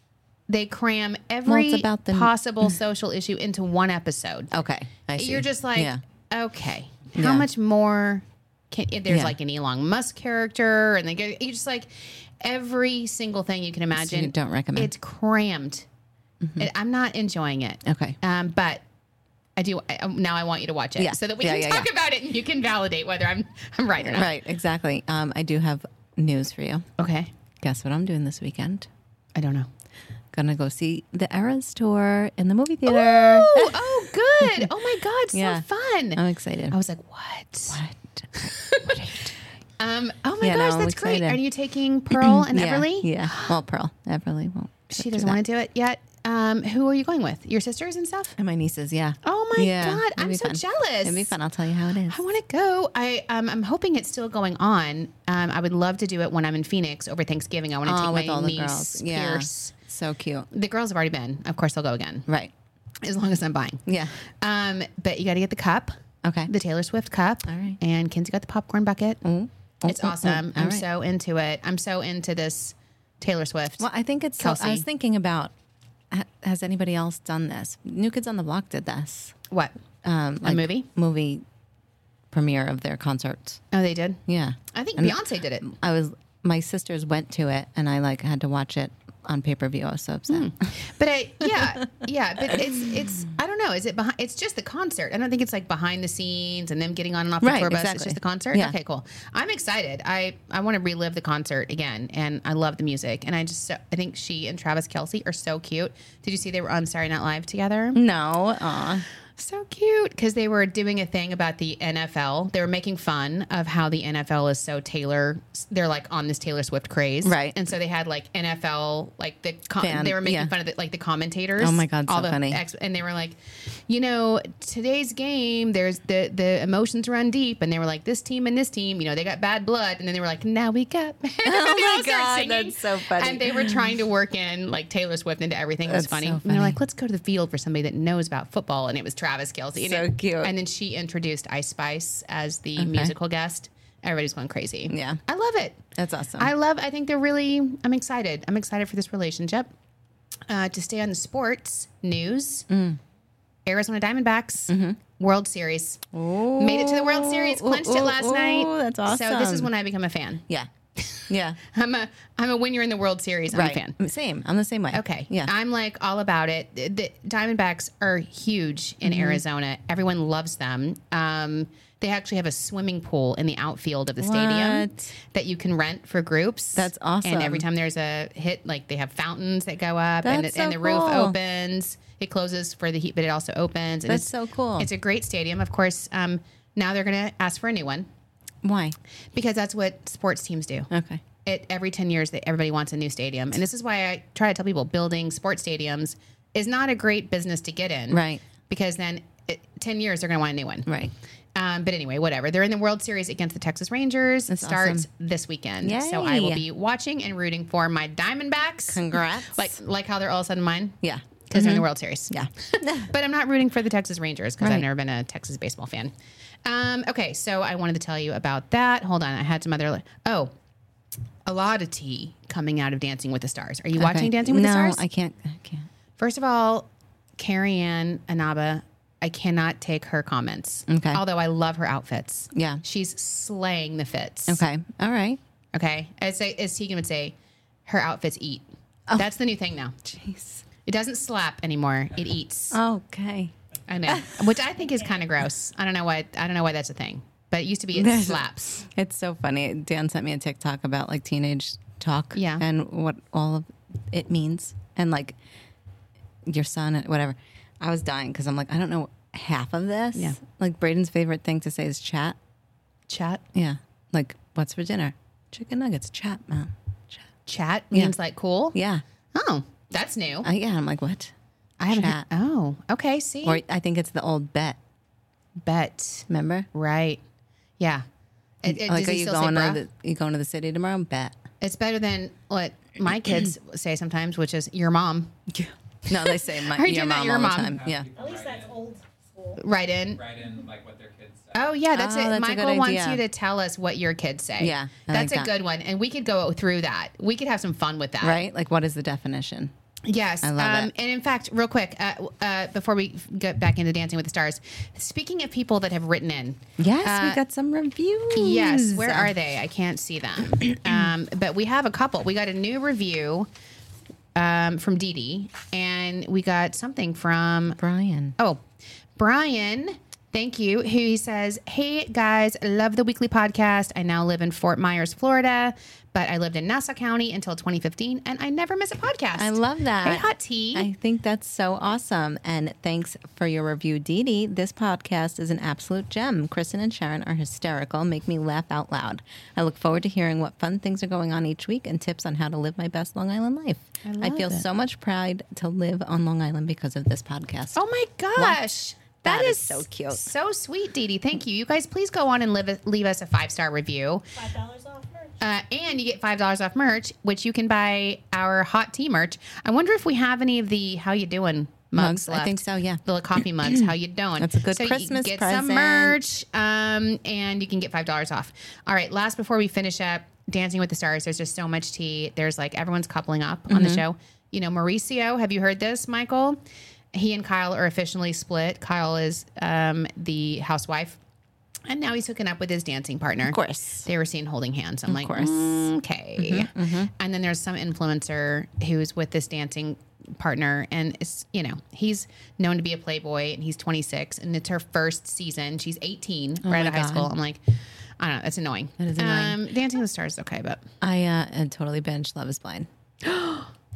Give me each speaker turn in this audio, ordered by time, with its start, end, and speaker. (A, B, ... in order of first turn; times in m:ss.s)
0:00.5-0:04.5 A
0:01.4-0:02.7 B
0:04.5-0:06.0 B
0:05.2-0:15.8 A
0:07.1-0:07.5 B
0:09.1-0:09.3 B
0:13.9-0:14.9 B
0:16.4-0:16.7 B
0:16.6-0:18.8 A
0:17.8-0:18.2 B
0:19.6-0:24.3 A
0:21.0-0:21.9 B
0:24.0-0:26.9 B
0:27.0-0:27.3 A
0:27.6-0:28.9 B
0:29.3-0:29.7 A
0:30.3-0:34.7 B
0:32.8-0:37.8 A
0:35.3-0:36.8 B
0:37.7-0:39.3 B
0:38.4-0:39.2 A
0:39.8-0:43.5 A
0:40.4-0:41.4 B
0:42.1-0:45.4 B
0:44.9-0:48.4 A
0:48.4-0:52.2 B
0:49.2-0:51.3 A
0:52.1-0:59.7 A
0:57.8-1:00.4 B
1:00.5-1:02.3 A
1:03.0-1:05.9 A
1:03.8-1:04.2 B
1:06.2-1:06.5 B
1:06.5-1:09.2 A
1:07.5-1:07.8 B
1:09.2-1:10.8 B
1:09.8-1:13.9 A
1:13.8-1:15.5 B
1:14.4-1:14.8 A
1:16.1-1:19.4 B
1:20.0-1:21.4 B
1:20.4-1:20.9 A
1:22.3-1:23.6 B
1:23.7-1:25.7 A
1:24.3-1:30.5 B
1:30.3-1:48.0 A
1:31.4-1:31.8 B
1:32.5-1:32.8 B
1:37.4-1:38.7 B
1:47.9-1:49.0 B
1:49.4-2:03.4 A
1:57.2-1:57.6 B
1:59.8-2:00.5 B
2:01.6-2:02.6 B
2:03.9-2:25.8 A
2:11.4-2:13.9 B
2:15.9-2:16.8 B
2:19.8-2:20.5 B
2:22.8-2:23.1 B
2:24.9-2:25.2 B
2:25.9-2:26.5 B
2:26.4-2:29.7 A
2:30.5-2:32.7 A
2:32.7-2:33.0 B
2:33.6-2:36.0 A
2:34.7-2:35.0 B
2:36.1-2:39.7 B
2:36.6-2:40.4 A
2:41.0-2:44.0 A
2:41.3-2:41.6 B
2:43.5-2:45.5 B
2:44.9-3:08.1 A
2:49.0-2:49.4 B
2:54.2-2:55.1 B
2:56.8-2:57.6 B
3:00.2-3:01.4 B
3:04.1-3:04.9 B
3:08.6-3:08.9 B
3:09.3-3:10.9 A
3:10.9-3:11.2 B
3:11.4-3:20.9 A
3:18.1-3:18.4 B
3:20.8-3:21.1 B
3:21.5-3:36.1 A
3:24.5-3:25.1 B
3:25.8-3:26.6 B
3:28.9-3:29.7 B
3:31.0-3:33.1 B
3:34.6-3:34.8 B
3:36.6-3:40.5 A
3:41.4-3:45.0 A
3:44.0-3:45.9 B
3:46.2-3:54.6 A
3:50.9-3:51.2 B
3:52.5-3:52.8 B
3:54.5-3:55.4 B
3:55.7-3:57.3 A
3:57.9-4:00.0 A
4:00.0-4:00.6 B
4:00.8-4:02.8 A
4:02.7-4:03.5 B
4:03.9-4:08.8 A
4:04.0-4:04.4 B
4:07.9-4:15.4 B
4:12.3-4:12.6 A
4:16.4-4:22.4 B
4:23.1-4:23.4 A
4:23.5-4:27.2 B
4:27.5-4:28.8 A
4:28.7-4:29.0 B
4:29.3-4:30.5 A
4:30.4-4:31.3 B
4:31.8-4:33.6 A
4:31.8-4:32.2 B
4:33.4-4:34.8 B
4:35.6-4:37.2 A
4:36.3-4:36.7 B
4:37.8-4:38.0 A
4:38.6-4:39.8 A
4:38.6-4:41.4 B
4:41.6-4:45.3 A
4:45.5-4:48.1 B
4:46.1-4:47.8 A
4:47.6-4:48.8 C
4:48.1-4:49.6 D
4:49.6-4:50.2 A
4:50.1-4:51.6 C
4:51.5-4:58.4 A
4:51.9-4:53.2 B
4:54.6-4:55.5 B
4:58.2-4:59.7 B
5:00.0-5:07.4 A
5:00.4-5:00.9 B
5:06.8-5:09.3 B
5:08.3-5:13.5 A
5:10.6-5:11.1 B
5:14.3-5:17.8 A
5:17.8-5:18.3 B
5:19.2-5:30.9 A
5:29.4-5:47.8 B
5:44.0-5:44.6 A
5:47.7-5:54.2 A
5:48.4-5:48.6 B
5:49.2-5:50.3 B
5:54.3-5:55.4 D
5:55.4-6:16.6 A
6:02.0-6:06.2 B
6:13.7-6:14.0 B
6:17.1-6:21.2 A
6:21.9-6:37.6 A
6:23.5-6:24.0 B
6:25.1-6:27.1 B
6:36.6-6:37.3 B
6:38.2-6:40.8 A
6:39.0-6:39.6 B
6:41.0-6:42.9 B
6:43.2-6:43.7 A